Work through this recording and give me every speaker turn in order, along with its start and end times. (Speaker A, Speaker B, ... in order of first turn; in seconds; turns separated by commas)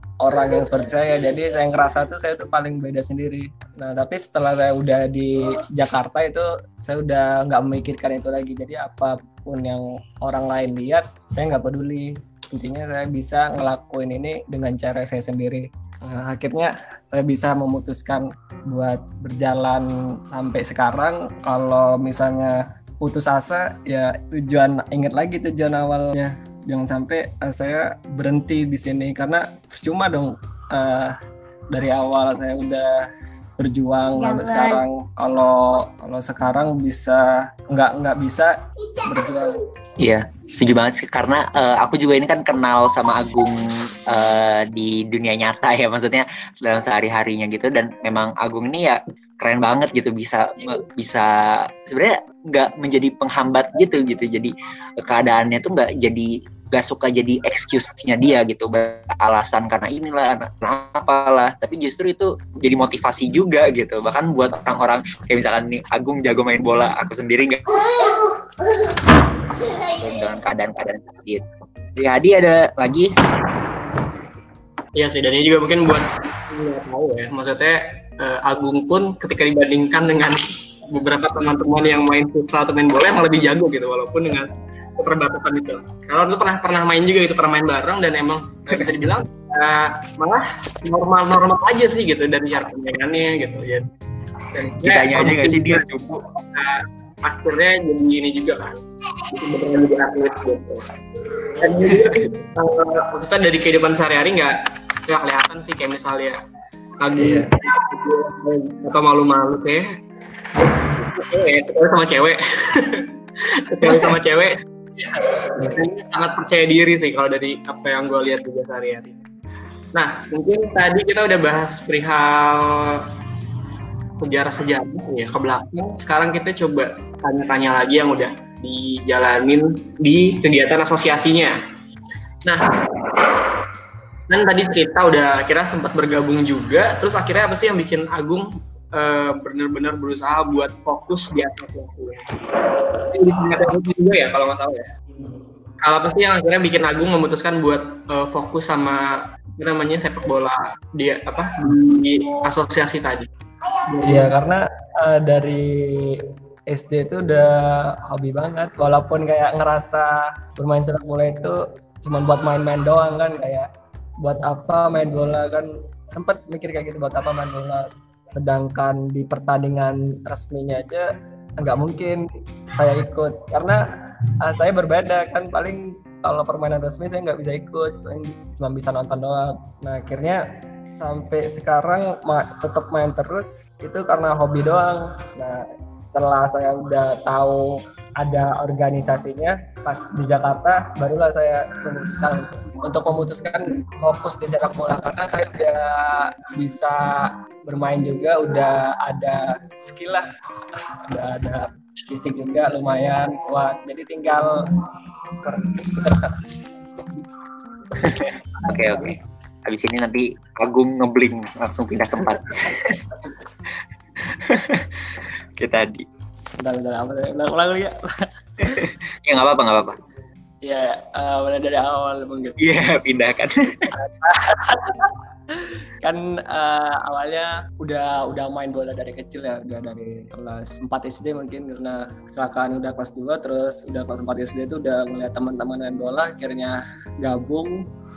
Speaker A: 0.2-31.2, Speaker A: 31.7-33.0, Speaker A: 33.6-38.5, Speaker A: 39.0-39.6, Speaker B: 40.0-68.1, Speaker B: 70.0-71.4, Speaker B: 72.0-73.1, Speaker C: 75.0-93.9, Speaker C: 94.4-95.8, Speaker B: 94.8-96.2, Speaker C: 96.4-106.4, Speaker C: 107.0-109.9, Speaker A: 107.2-107.5, Speaker C: 110.6-119.2, Speaker A: 115.6-115.8, Speaker C: 119.9-123.1, Speaker C: 124.2-131.6, Speaker C: 132.4-133.3, Speaker C: 134.3-142.2, Speaker C: 143.0-144.9, Speaker C: 145.8-149.1, Speaker C: 149.6-153.3, Speaker C: 153.9-154.3, Speaker A: 154.0-156.2, Speaker A: 156.7-163.7, Speaker A: 164.2-171.1, Speaker A: 171.6-173.8, Speaker A: 174.4-180.4, Speaker A: 181.0-200.2, Speaker A: 200.8-204.6, Speaker A: 205.4-206.4, Speaker B: 208.0-213.0, Speaker A: 208.6-209.2, Speaker B: 214.2-216.1, Speaker A: 216.6-218.0, Speaker B: 218.8-220.0, Speaker A: 220.7-222.6, Speaker B: 222.6-223.9, Speaker A: 223.9-225.1, Speaker A: 226.0-237.8